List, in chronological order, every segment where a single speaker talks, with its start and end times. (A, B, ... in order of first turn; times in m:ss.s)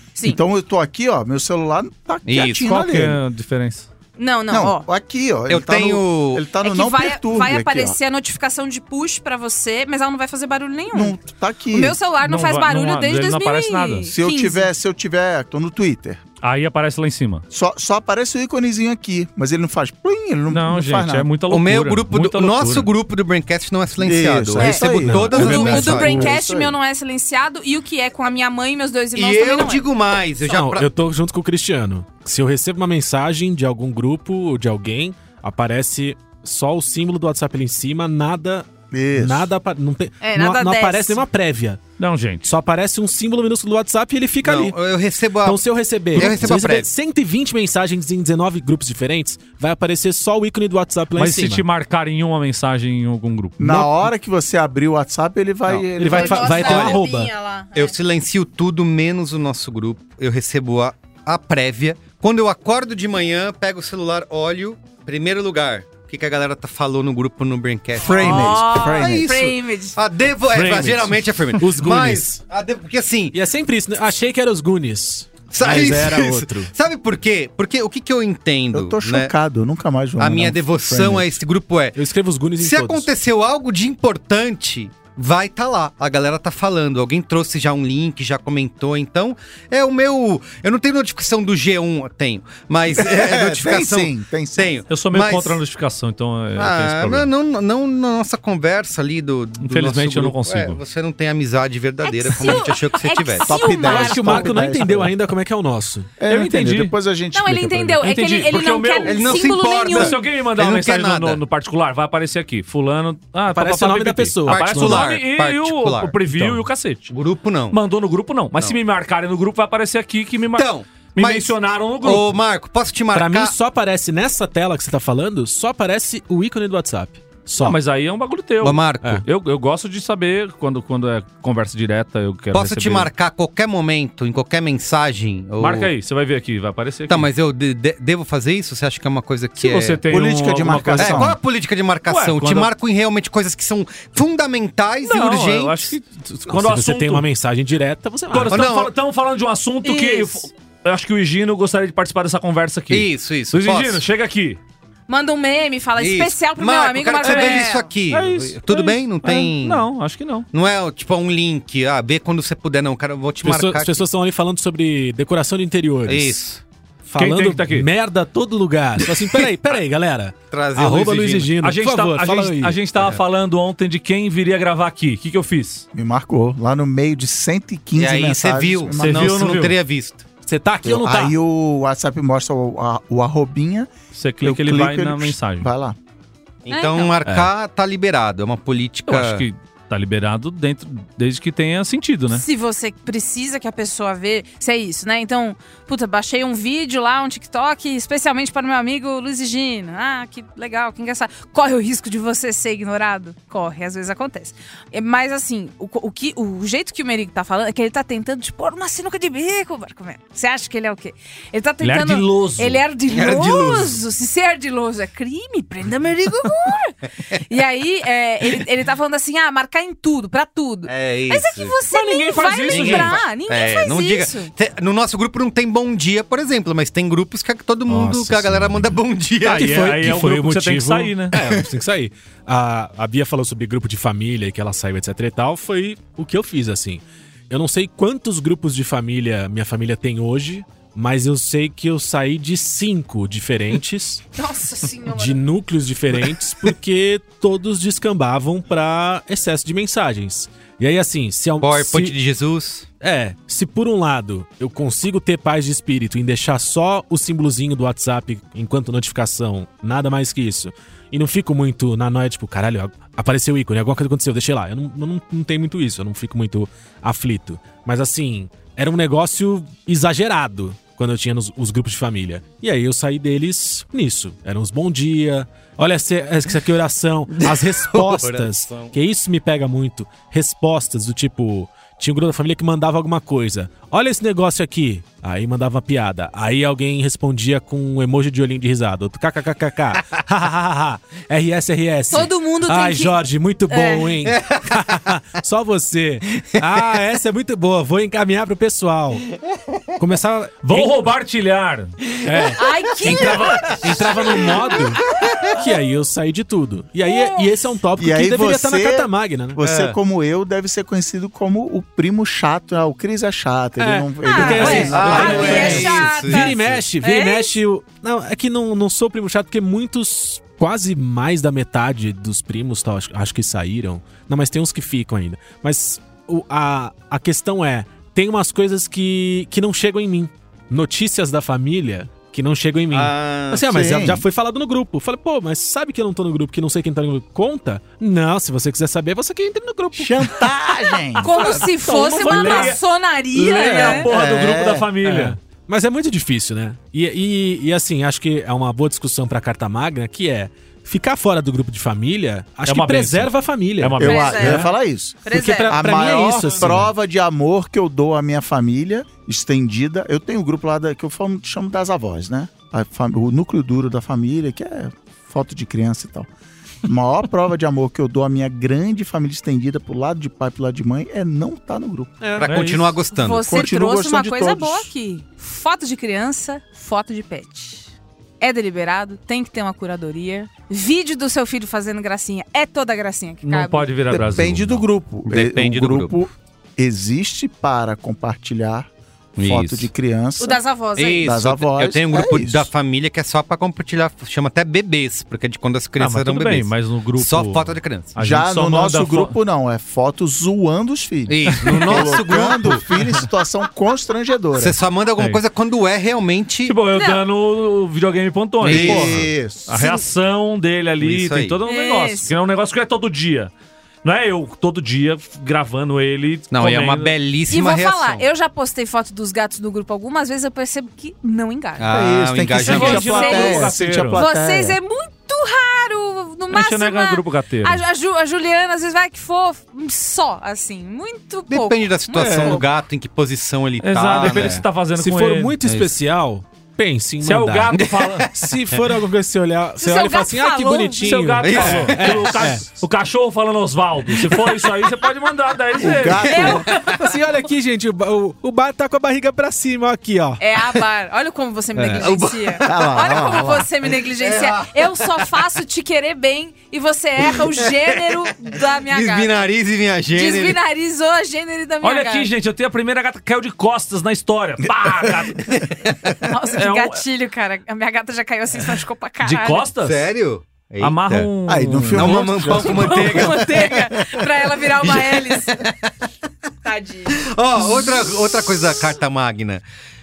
0:00.2-0:00.4 A
0:00.2-0:03.2 B
0:02.2-0:02.7 C
0:02.6-0:03.9 D
0:04.2-0:04.8 A
0:04.5-0:08.0 B
0:05.5-0:06.4 C
0:06.6-0:11.2 A
0:10.9-0:12.0 B
0:11.7-0:14.7 A
0:12.2-0:14.1 D
0:14.1-0:16.2 B
0:16.4-0:17.4 D
0:17.5-0:21.3 B
0:20.5-0:22.9 D
0:21.5-0:26.3 C
0:24.0-0:26.8 B
0:24.6-0:29.8 A
0:24.7-0:26.3 E
0:29.1-0:30.9 C
0:30.4-0:41.8 E
0:38.9-0:39.5 B
0:40.2-0:41.2 A
0:42.0-0:42.5 D
0:42.4-0:44.8 E
0:44.4-0:46.9 C
0:45.4-0:51.6 E
0:51.1-0:53.7 D
0:53.6-0:56.7 B
0:53.6-0:54.0 E
0:55.7-0:57.3 E
0:56.0-0:57.9 A
0:56.6-0:57.0 C
0:57.7-1:13.4 C
1:08.0-1:09.4 B
1:08.2-1:10.0 A
1:10.5-1:12.4 E
1:13.3-1:16.7 E
1:15.5-1:19.3 C
1:18.7-1:21.4 B
1:20.2-1:22.0 C
1:21.9-1:23.1 E
1:22.6-1:35.6 C
1:33.0-1:34.8 B
1:34.9-1:37.3 D
1:36.6-1:43.6 C
1:39.6-1:40.8 D
1:42.0-1:44.7 A
1:43.4-1:45.2 B
1:43.7-1:46.9 E
1:46.2-1:48.0 B
1:46.4-1:46.9 D
1:47.3-1:50.2 A
1:48.0-1:57.1 D
1:49.0-1:51.4 C
1:53.5-1:55.1 E
1:54.5-1:56.5 C
1:56.3-1:56.6 E
1:57.1-1:57.8 C
1:57.7-2:02.3 D
2:00.5-2:03.5 C
2:03.1-2:07.8 E
2:07.6-2:13.1 D
2:08.6-2:09.2 C
2:12.5-2:15.9 C
2:15.6-2:17.3 D
2:17.1-2:20.0 C
2:19.6-2:21.4 D
2:20.1-2:21.4 B
2:21.0-2:25.9 C
2:22.1-2:22.7 D
2:25.0-2:27.3 D
2:26.5-2:28.7 E
2:28.3-2:34.6 D
2:28.5-2:28.9 C
2:29.8-2:30.4 A
2:32.9-2:34.0 C
2:35.1-2:37.9 A
2:36.0-2:39.9 C
2:37.2-2:40.4 D
2:40.5-2:44.0 C
2:43.4-2:46.4 E
2:46.1-2:46.6 C
2:47.0-2:52.8 E
2:47.2-2:47.9 D
2:50.5-2:51.5 C
2:51.6-2:55.8 D
2:55.9-2:59.5 B
2:57.9-3:00.2 C
2:59.0-2:59.8 D
3:00.4-3:01.3 E
3:00.8-3:06.0 B
3:04.1-3:05.7 D
3:06.6-3:09.4 C
3:06.7-3:07.1 A
3:07.2-3:07.5 E
3:09.1-3:12.4 D
3:12.3-3:44.5 A
3:31.8-3:32.8 D
3:33.1-3:34.0 C
3:40.9-3:41.8 C
3:41.9-3:43.2 D
3:42.7-3:49.8 C
3:47.9-4:04.2 E
3:49.5-3:51.3 D
3:51.3-3:51.6 C
4:04.3-4:05.4 A
4:05.1-4:12.1 E
4:11.6-4:12.9 C
4:13.0-4:59.2 E
4:37.4-4:38.9 C
4:52.1-4:54.1 A
5:00.0-5:01.0 E
5:00.6-5:02.1 D
5:02.2-5:09.6 E
5:02.6-5:04.1 A
5:03.1-5:04.1 D
5:07.0-5:07.5 A
5:08.0-5:15.8 B
5:09.6-5:10.0 C
5:13.8-5:40.3 E
5:14.2-5:17.6 A
5:14.5-5:16.8 C
5:32.9-5:33.6 C
5:33.6-5:34.2 B
5:39.9-5:41.3 B
5:41.2-5:42.8 D
5:41.2-5:44.1 A
5:41.4-5:42.8 E
5:43.4-5:44.1 E
5:43.4-5:45.4 D
5:44.0-5:44.9 B
5:45.0-5:54.7 E
5:52.6-5:54.7 D
5:54.0-6:06.3 B
5:54.0-5:54.7 A
5:55.2-5:56.0 A
5:55.3-5:56.9 E
6:06.8-6:12.2 B
6:12.2-6:13.0 E
6:12.4-6:13.5 C
6:12.4-6:12.9 D
6:13.2-6:17.9 A
6:13.4-6:14.9 B
6:18.4-6:23.9 A
6:23.5-6:24.8 D
6:24.1-6:30.6 B
6:25.3-6:26.2 C
6:29.4-6:29.9 C
6:30.4-6:31.3 A
6:31.0-6:38.1 C
6:31.2-6:32.7 B
6:36.0-6:39.3 D
6:38.2-6:44.8 B
6:41.3-6:42.9 C
6:41.5-6:42.8 D
6:44.6-6:46.8 C
6:46.6-6:53.5 D
6:46.9-6:47.2 A
6:48.6-6:49.3 C
6:48.6-6:50.0 B
6:51.0-6:51.6 C
6:51.6-6:52.3 A
6:54.0-6:57.1 D
6:56.5-6:58.2 C
6:57.5-7:01.9 A
7:01.8-7:03.0 C
7:01.9-7:04.8 B
7:02.6-7:04.2 D
7:02.7-7:12.6 A
7:06.5-7:07.8 D
7:11.5-7:14.6 C
7:12.1-7:12.6 E
7:13.8-7:15.5 D
7:14.9-7:22.8 E
7:15.6-7:15.9 C
7:17.2-7:18.3 D
7:17.7-7:18.3 C
7:19.8-7:21.1 A
7:21.0-7:26.5 D
7:21.4-7:22.4 C
7:24.1-7:24.6 C
7:25.8-7:26.7 B
7:26.2-7:26.9 A
7:26.8-7:30.4 E
7:30.4-7:39.4 A
7:31.8-7:33.4 C
7:32.6-7:33.7 B
7:34.2-7:35.2 C
7:37.7-7:38.1 C
7:38.9-7:40.6 C
7:40.1-7:42.3 A
7:41.8-7:45.5 D
7:45.4-7:46.1 C
7:46.3-7:49.7 A
7:46.6-7:47.0 D
7:49.2-7:50.0 D
7:49.8-7:51.3 C
7:50.8-7:52.7 D
7:51.5-7:53.5 B
7:51.9-7:54.0 C
7:52.5-7:55.6 A
7:54.8-7:55.8 C
7:56.6-7:57.2 A
7:57.1-7:59.6 C